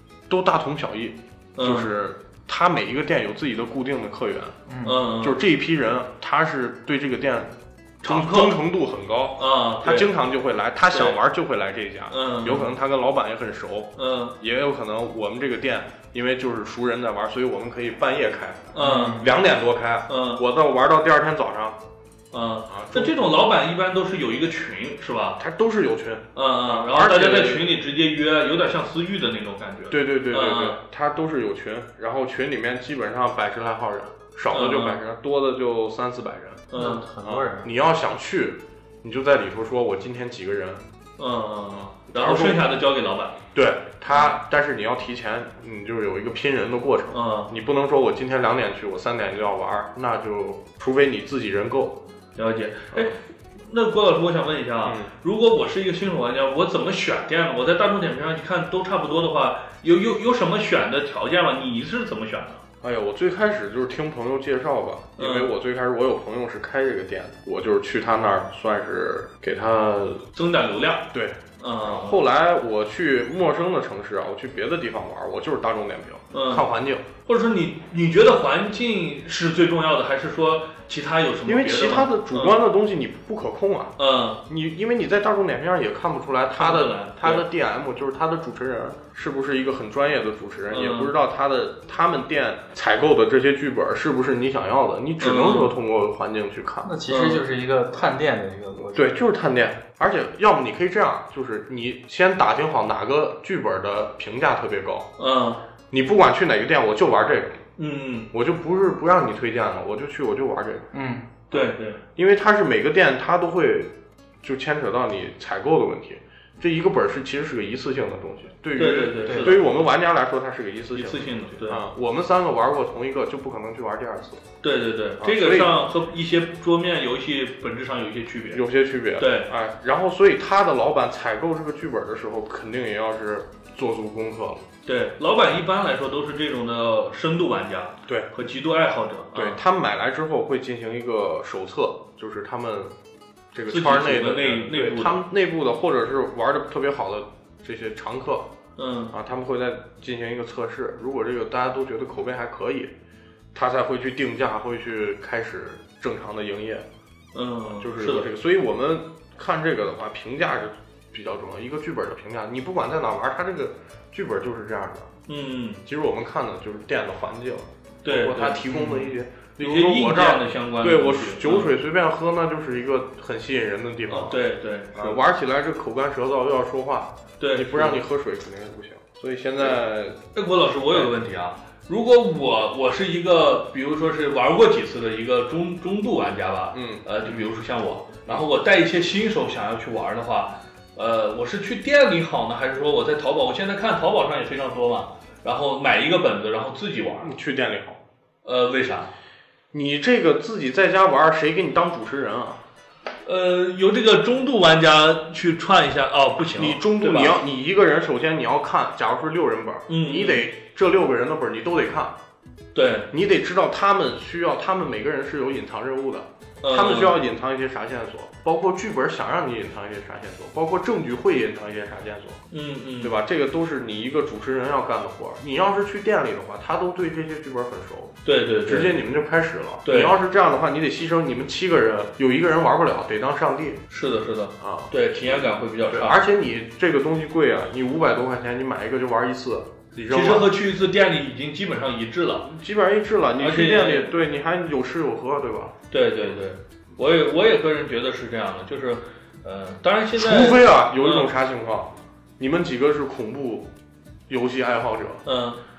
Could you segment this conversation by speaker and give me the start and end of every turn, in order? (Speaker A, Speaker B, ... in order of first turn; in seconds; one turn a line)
Speaker A: 0.3-4.5
Speaker B: 1.6-1.9
Speaker C: 4.7-5.0
Speaker B: 4.8-5.4
Speaker A: 5.2-7.5
Speaker B: 8.0-8.6
Speaker A: 8.0-21.8
Speaker B: 9.4-10.1
Speaker B: 10.9-11.2
Speaker B: 12.1-12.7
Speaker B: 14.0-14.3
Speaker B: 18.7-19.3
Speaker C: 18.8-19.2
Speaker B: 20.1-20.4
Speaker B: 22.3-25.4
Speaker A: 22.7-23.3
Speaker A: 25.4-27.7
Speaker B: 26.3-30.8
Speaker A: 29.9-40.8
Speaker B: 34.5-35.0
Speaker B: 36.7-37.1
Speaker C: 36.7-37.7
Speaker B: 41.2-43.4
Speaker A: 42.1-42.6
Speaker A: 43.5-52.0
Speaker B: 47.1-47.5
Speaker B: 52.4-62.6
Speaker A: 54.8-55.1
Speaker A: 62.8-70.2
Speaker B: 65.2-65.5
Speaker B: 70.3-72.2
Speaker A: 71.1-77.1
Speaker B: 76.3-76.7
Speaker B: 77.2-82.6
Speaker A: 81.5-83.9
Speaker B: 84.0-84.4
Speaker A: 84.5-96.9
Speaker B: 86.5-87.5
Speaker B: 90.7-91.1
Speaker B: 95.2-95.7
Speaker C: 96.8-99.1
Speaker B: 97.1-97.4
Speaker A: 98.9-105.1
Speaker B: 105.2-105.6
Speaker A: 105.9-107.6
Speaker B: 107.8-108.3
Speaker A: 108.3-110.9
Speaker C: 110.9-111.3
Speaker B: 111.5-112.0
Speaker A: 111.5-124.4
Speaker B: 118.8-119.9
Speaker C: 119.2-119.5
Speaker B: 120.9-121.8
Speaker B: 124.6-128.6
Speaker A: 125.2-125.8
Speaker A: 128.5-134.6
Speaker B: 129.2-129.5
Speaker B: 134.8-139.6
Speaker A: 139.3-142.9
Speaker A: 143.5-148.5
Speaker B: 143.7-145.2
Speaker B: 148.8-149.1
Speaker A: 149.1-152.9
Speaker A: 153.5-156.9
Speaker B: 157.3-158.3
Speaker A: 157.7-165.1
Speaker B: 165.3-165.8
Speaker A: 165.8-174.4
Speaker B: 168.0-169.1
Speaker C: 168.7-169.0
Speaker B: 169.6-171.7
Speaker B: 174.1-175.2
Speaker A: 174.9-180.2
Speaker B: 177.4-178.0
Speaker B: 180.3-197.4
Speaker A: 186.7-187.4
Speaker A: 197.2-198.0
Speaker B: 198.4-199.1
Speaker A: 199.7-202.6
Speaker B: 203.2-207.4
Speaker A: 206.5-212.2
Speaker B: 209.9-210.5
Speaker B: 212.7-213.1
Speaker A: 213.1-222.4
Speaker B: 216.6-217.2
Speaker B: 222.5-223.1
Speaker A: 223.0-228.1
Speaker B: 228.2-229.0
Speaker A: 228.7-233.8
Speaker B: 229.8-230.1
Speaker B: 233.9-236.2
Speaker A: 234.6-240.5
Speaker B: 240.1-242.5
Speaker A: 242.4-246.3
Speaker B: 243.4-244.1
Speaker B: 245.9-251.3
Speaker A: 250.2-253.7
Speaker A: 254.3-255.2
Speaker B: 255.2-255.6